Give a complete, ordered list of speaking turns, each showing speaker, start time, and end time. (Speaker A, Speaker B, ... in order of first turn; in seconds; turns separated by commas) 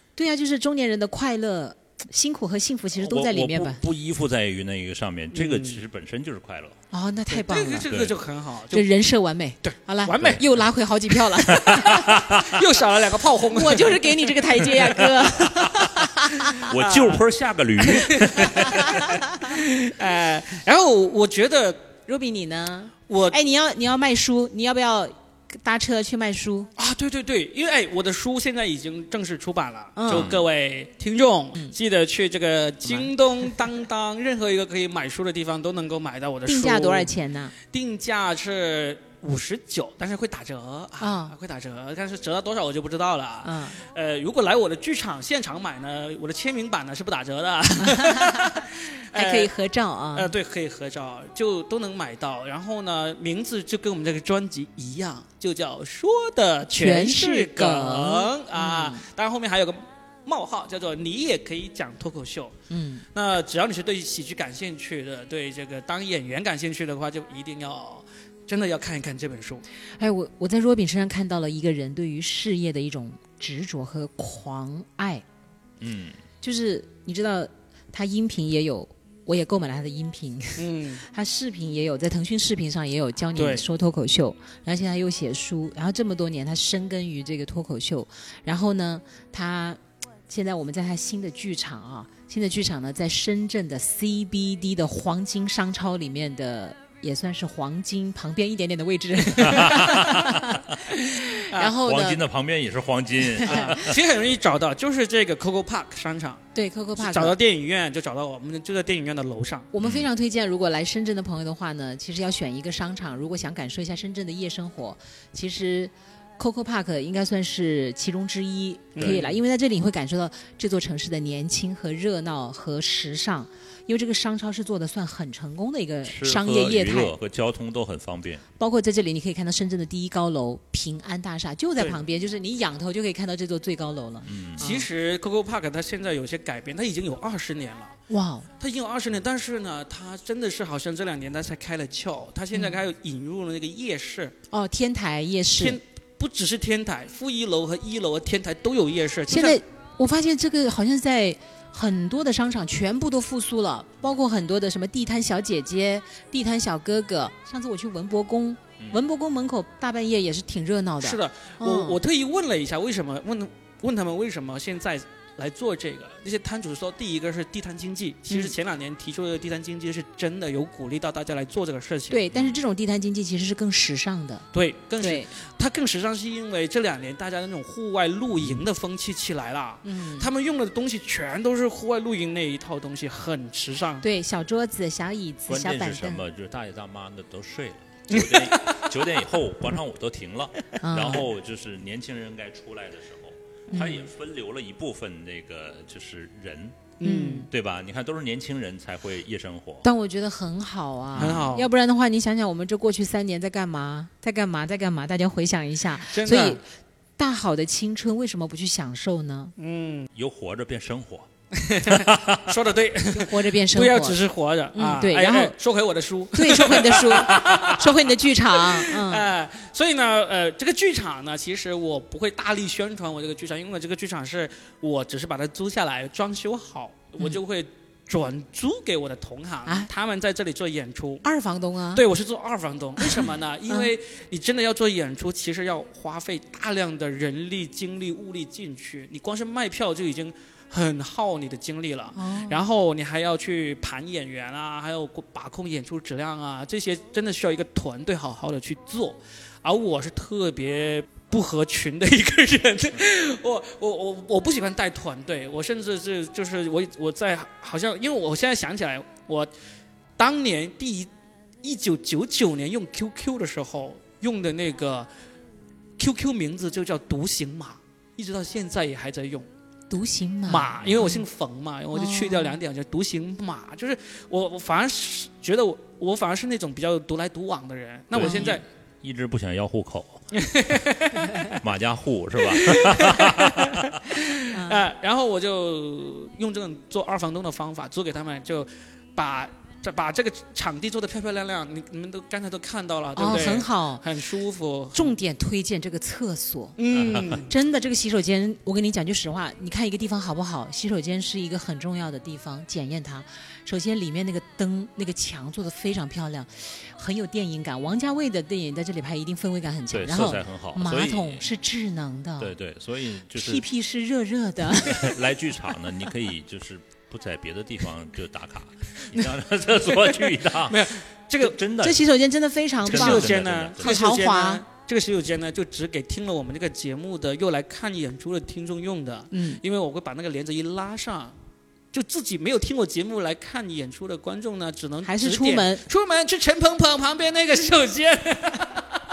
Speaker A: 0.2-3.8, Speaker B: 2.9-6.8, Speaker C: 5.3-5.8, Speaker A: 6.9-7.9, Speaker C: 7.3-8.9, Speaker B: 7.9-8.2, Speaker A: 8.7-12.1, Speaker C: 9.6-10.4, Speaker B: 10.2-10.4, Speaker C: 11.1-15.0, Speaker B: 11.5-12.6, Speaker A: 13.5-16.6, Speaker B: 16.6-19.0, Speaker C: 16.6-17.2, Speaker C: 17.8-21.9, Speaker A: 18.6-19.5, Speaker A: 22.1-26.7, Speaker C: 23.1-23.4, Speaker C: 26.8-37.1, Speaker A: 30.0-30.3, Speaker B: 30.1-30.5, Speaker A: 36.5-37.5, Speaker C: 37.7-49.5, Speaker A: 41.0-41.4, Speaker A: 43.4-43.8, Speaker A: 47.8-50.3, Speaker C: 50.1-62.5, Speaker A: 56.7-59.0, Speaker A: 62.7-63.0, Speaker C: 63.1-69.6, Speaker A: 70.0-75.2, Speaker B: 75.8-76.2, Speaker A: 76.4-102.2, Speaker C: 80.6-81.0, Speaker C: 83.3-83.7, Speaker B: 99.4-100.6, Speaker B: 101.7-104.0, Speaker A: 103.4-103.8, Speaker C: 103.5-106.5, Speaker A: 106.5-107.4, Speaker C: 107.0-109.7, Speaker A: 109.7-127.1, Speaker B: 109.8-110.1, Speaker C: 119.0-119.4, Speaker B: 126.0-128.4, Speaker A: 128.6-134.9, Speaker B: 134.2-134.7, Speaker C: 134.6-138.0, Speaker A: 138.1-138.5, Speaker C: 138.6-144.3, Speaker A: 144.5-145.8, Speaker C: 145.6-149.6, Speaker A: 149.3-162.0, Speaker C: 161.0-172.3, Speaker A: 172.1-174.5, Speaker B: 172.3-172.6, Speaker C: 174.5-184.0, Speaker A: 175.0-175.3, Speaker A: 179.8-180.3, Speaker A: 184.0-186.2, Speaker B: 185.5-196.9, Speaker C: 188.1-188.9, Speaker A: 190.8-191.2, Speaker A: 193.7-194.1, Speaker C: 197.0-197.5, Speaker A: 197.0-197.5, Speaker B: 197.5-199.9, Speaker A: 199.8-206.6, Speaker B: 201.1-201.4, Speaker C: 201.2-201.7, Speaker C: 206.1-206.6, Speaker A: 207.2-209.5, Speaker C: 209.6-210.1, Speaker B: 210.1-211.3, Speaker C: 211.5-231.2, Speaker B: 211.9-212.4, Speaker A: 213.1-214.2, Speaker A: 214.7-215.6, Speaker A: 216.3-219.3, Speaker A: 231.2-232.1, Speaker C: 231.9-259.5, Speaker A: 233.0-233.9, Speaker A: 242.2-242.6, Speaker C: 260.2-261.1, Speaker C: 261.6-265.1, Speaker C: 266.0-269.5, Speaker A: 269.9-271.2, Speaker C: 270.5-278.6, Speaker A: 271.9-272.6, Speaker B: 278.1-280.2, Speaker A: 278.2-278.6, Speaker C: 280.3-281.6, Speaker B: 281.5-283.9, Speaker C: 282.4-295.1, Speaker A: 284.5-284.9, Speaker A: 293.2-294.1, Speaker A: 294.9-312.5, Speaker C: 296.8-297.5, Speaker B: 296.9-297.4, Speaker B: 309.9-311.5, Speaker B: 312.4-313.7, Speaker A: 313.3-315.2, Speaker B: 314.8-322.0, Speaker C: 320.5-321.6, Speaker A: 321.8-324.6, Speaker B: 322.8-324.0, Speaker C: 322.9-331.4, Speaker A: 329.3-329.6, Speaker C: 331.9-339.0, Speaker A: 335.0-335.8